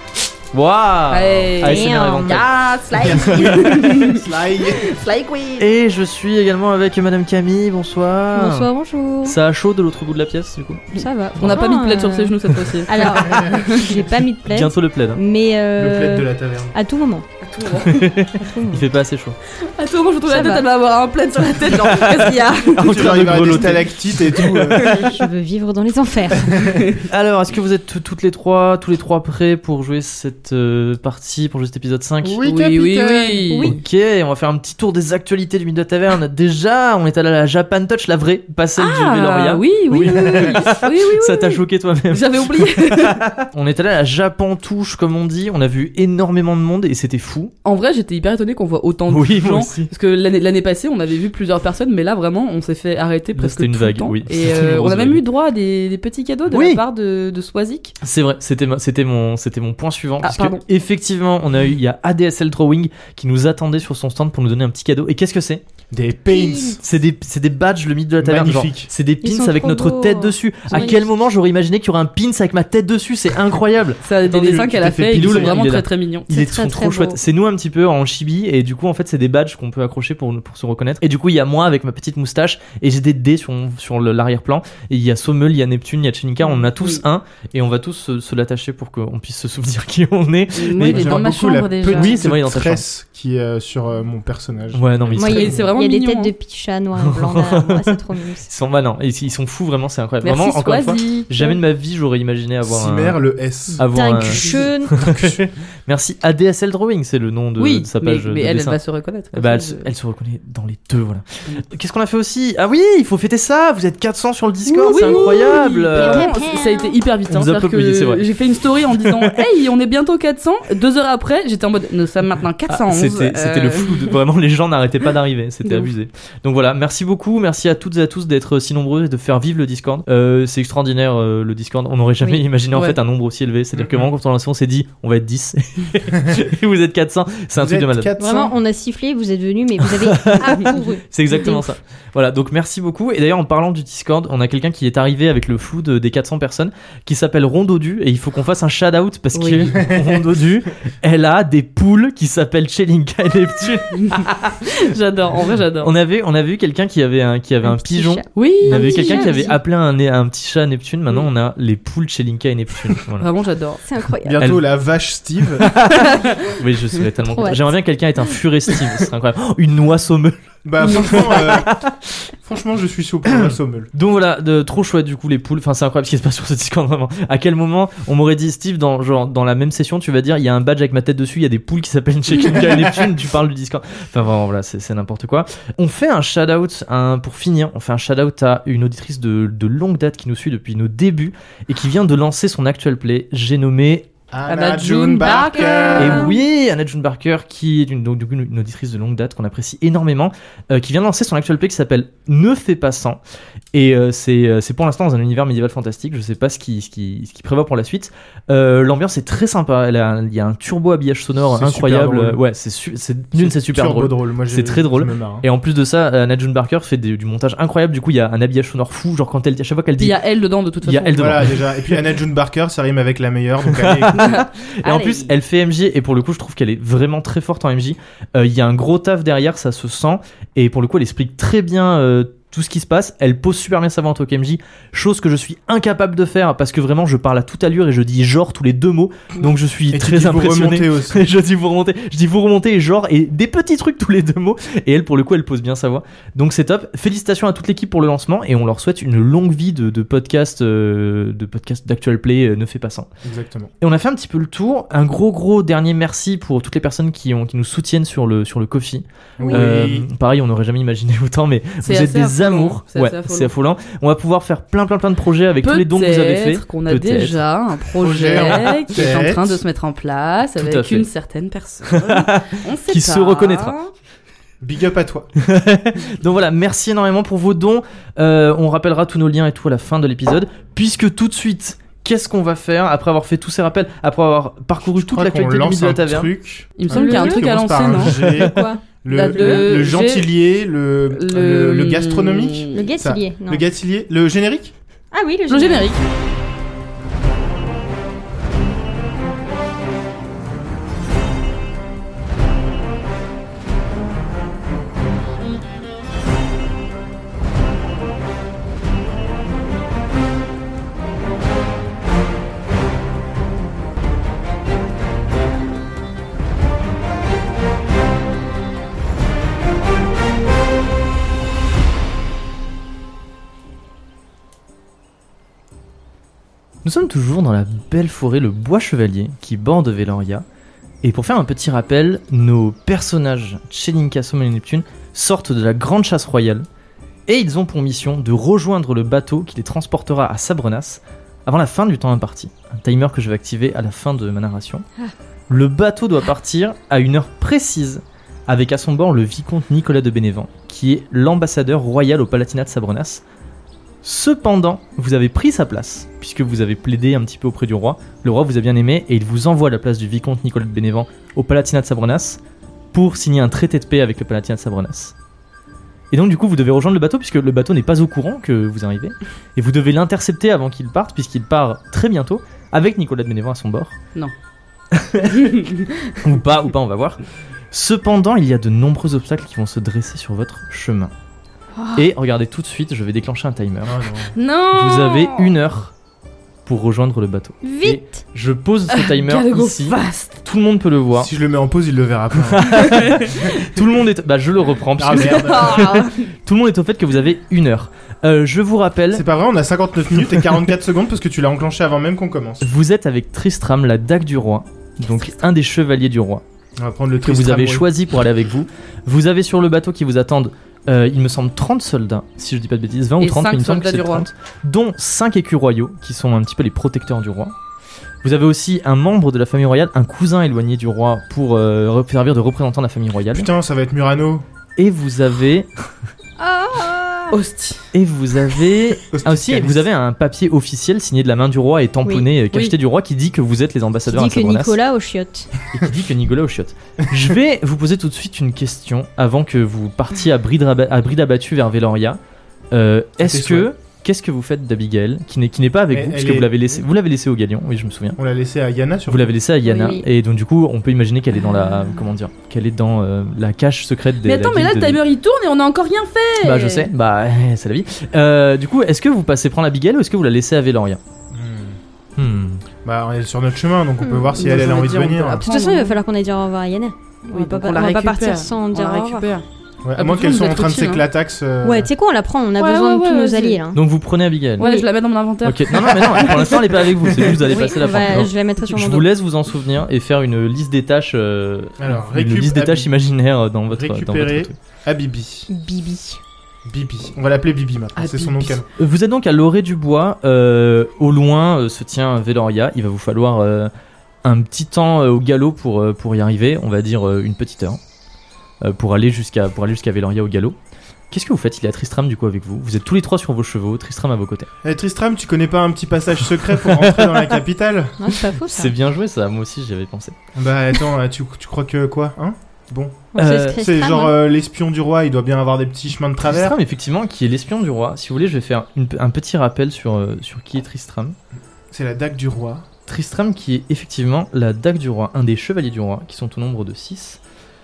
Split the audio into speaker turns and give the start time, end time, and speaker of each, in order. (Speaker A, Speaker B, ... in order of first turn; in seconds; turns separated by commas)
Speaker A: 0.5-2.5, Speaker B: 1.1-5.6, Speaker C: 1.6-3.2, Speaker D: 2.9-5.0, Speaker A: 5.6-8.7, Speaker C: 8.3-9.4, Speaker A: 9.2-11.6, Speaker B: 10.9-14.0, Speaker C: 10.9-17.2, Speaker A: 14.5-15.2, Speaker D: 15.8-16.7, Speaker B: 17.4-18.2, Speaker A: 17.6-19.4, Speaker C: 18.4-18.9, Speaker B: 19.6-23.1, Speaker C: 20.3-20.6, Speaker A: 21.6-25.0, Speaker D: 22.8-25.1, Speaker B: 24.5-25.2, Speaker C: 24.8-26.8, Speaker D: 26.4-26.8, Speaker B: 26.7-27.0, Speaker A: 27.0-32.4, Speaker D: 32.2-33.6, Speaker B: 32.4-33.8, Speaker C: 33.5-33.8, Speaker A: 33.6-47.5, Speaker B: 38.8-43.3, Speaker B: 47.6-57.9, Speaker A: 49.1-49.9, Speaker A: 53.3-55.2, Speaker A: 56.5-56.8, Speaker A: 58.0-65.6, Speaker B: 60.2-60.6, Speaker D: 65.9-66.8, Speaker C: 66.3-66.8, Speaker A: 66.8-74.0, Speaker D: 68.2-68.9, Speaker C: 69.2-71.0, Speaker B: 74.0-76.3, Speaker D: 74.2-75.6, Speaker A: 75.1-91.2, Speaker C: 76.3-77.2, Speaker B: 90.5-92.2, Speaker D: 90.8-95.7, Speaker A: 91.9-92.8, Speaker A: 94.7-95.5, Speaker C: 95.1-98.5, Speaker B: 95.2-96.3, Speaker A: 97.0-103.2, Speaker B: 100.2-101.6, Speaker D: 102.6-105.4, Speaker A: 103.8-108.8, Speaker C: 103.9-105.0, Speaker B: 107.6-109.9, Speaker A: 109.3-116.3, Speaker B: 114.7-124.2, Speaker C: 114.8-115.4, Speaker C: 115.9-117.0, Speaker A: 117.3-118.2, Speaker A: 119.0-119.4, Speaker A: 122.7-138.1, Speaker B: 125.6-125.9, Speaker B: 132.7-133.0, Speaker D: 133.7-134.1, Speaker D: 137.6-138.5, Speaker C: 138.2-141.7, Speaker A: 139.8-154.5, Speaker B: 149.3-149.7, Speaker D: 149.8-150.3, Speaker B: 153.9-155.9, Speaker A: 155.8-163.3, Speaker C: 157.6-159.6, Speaker B: 158.3-159.5, Speaker B: 163.2-163.8, Speaker C: 163.8-164.5, Speaker D: 164.2-165.7, Speaker A: 165.6-172.3, Speaker B: 165.9-166.3, Speaker C: 167.3-167.7, Speaker D: 170.6-171.7, Speaker C: 170.9-171.4, Speaker D: 172.4-173.9, Speaker A: 173.3-194.1, Speaker D: 182.4-183.1, Speaker D: 194.3-196.3, Speaker B: 194.4-196.3, Speaker C: 195.2-196.3, Speaker A: 195.9-203.2, Speaker A: 203.7-220.2, Speaker D: 211.4-212.4, Speaker D: 213.3-215.4, Speaker B: 220.0-221.5, Speaker A: 220.8-221.6, Speaker D: 221.1-224.3, Speaker A: 223.7-253.1, Speaker B: 224.1-225.3, Speaker D: 239.9-241.2, Speaker D: 253.2-253.7, Speaker A: 253.8-267.4, Speaker D: 259.4-260.1, Speaker C: 259.4-259.8, Speaker B: 261.8-263.5, Speaker B: 265.6-273.9, Speaker D: 268.0-269.6, Speaker A: 268.3-268.8, Speaker A: 270.6-271.0, Speaker A: 271.9-273.7, Speaker D: 274.6-275.3, Speaker A: 275.4-286.3, Speaker D: 284.9-294.7, Speaker B: 286.8-288.2, Speaker C: 286.9-287.5, Speaker A: 288.2-288.5, Speaker C: 288.2-289.7, Speaker B: 289.1-290.3, Speaker B: 291.1-292.9, Speaker C: 292.7-293.6, Speaker C: 295.1-295.9, Speaker B: 295.5-296.0, Speaker A: 326.8-330.4, Speaker A: 331.0-336.7, Speaker A: 337.3-344.8, Speaker A: 345.5-353.2, Speaker A: 354.0-362.4, Speaker A: 362.9-365.1, Speaker A: 366.1-374.0, Speaker A: 374.9-375.6, Speaker B: 375.4-375.8, Speaker A: 376.1-381.1, Speaker A: 381.9-384.0, Speaker D: 383.8-384.3, Speaker B: 384.3-385.5, Speaker A: 384.7-385.9, Speaker A: 386.6-391.3, Speaker C: 387.6-388.1, Speaker B: 388.9-390.4, Speaker D: 391.1-393.6, Speaker A: 392.5-399.2, Speaker B: 392.7-393.2, Speaker D: 395.0-395.9, Speaker B: 395.1-396.3, Speaker D: 399.1-402.6, Speaker A: 402.6-406.4, Speaker D: 406.8-407.9, Speaker A: 407.2-417.5, Speaker B: 413.2-414.2, Speaker A: 418.2-423.5, Speaker D: 423.3-424.4, Speaker A: 424.8-425.7, Speaker C: 426.4-427.4, Speaker B: 427.3-427.8, Speaker A: 427.9-434.8, Speaker D: 429.1-429.9, Speaker C: 434.1-435.5, Speaker A: 435.7-442.2, Speaker A: 442.7-448.2, Speaker D: 443.2-443.7, Speaker D: 445.9-446.5, Speaker D: 448.2-449.3, Speaker A: 449.1-455.0, Speaker C: 449.6-450.1, Speaker B: 454.2-456.9, Speaker A: 456.4-461.0, Speaker D: 461.3-461.8, Speaker A: 462.2-462.6, Speaker D: 462.8-465.5, Speaker C: 464.0-464.3, Speaker B: 464.3-466.0, Speaker C: 465.5-469.3, Speaker B: 467.3-469.4, Speaker D: 469.8-471.9, Speaker B: 469.9-471.0, Speaker C: 471.6-473.8, Speaker B: 472.6-473.6, Speaker A: 473.7-474.7, Speaker C: 474.6-474.9, Speaker B: 474.6-476.6, Speaker A: 475.4-484.6, Speaker D: 475.9-477.4, Speaker C: 477.4-479.1, Speaker D: 481.8-482.9, Speaker D: 483.7-485.5, Speaker C: 485.5-486.2, Speaker D: 486.6-488.6, Speaker B: 487.9-488.6, Speaker A: 488.7-493.7, Speaker A: 494.2-497.8, Speaker A: 498.6-500.6, Speaker A: 501.1-504.5, Speaker D: 504.6-508.0, Speaker A: 506.6-507.4, Speaker C: 508.0-508.7, Speaker A: 508.5-510.1, Speaker D: 510.3-516.5, Speaker C: 513.1-514.1, Speaker A: 513.2-513.6, Speaker A: 516.2-521.1, Speaker D: 521.7-522.7, Speaker A: 522.9-527.2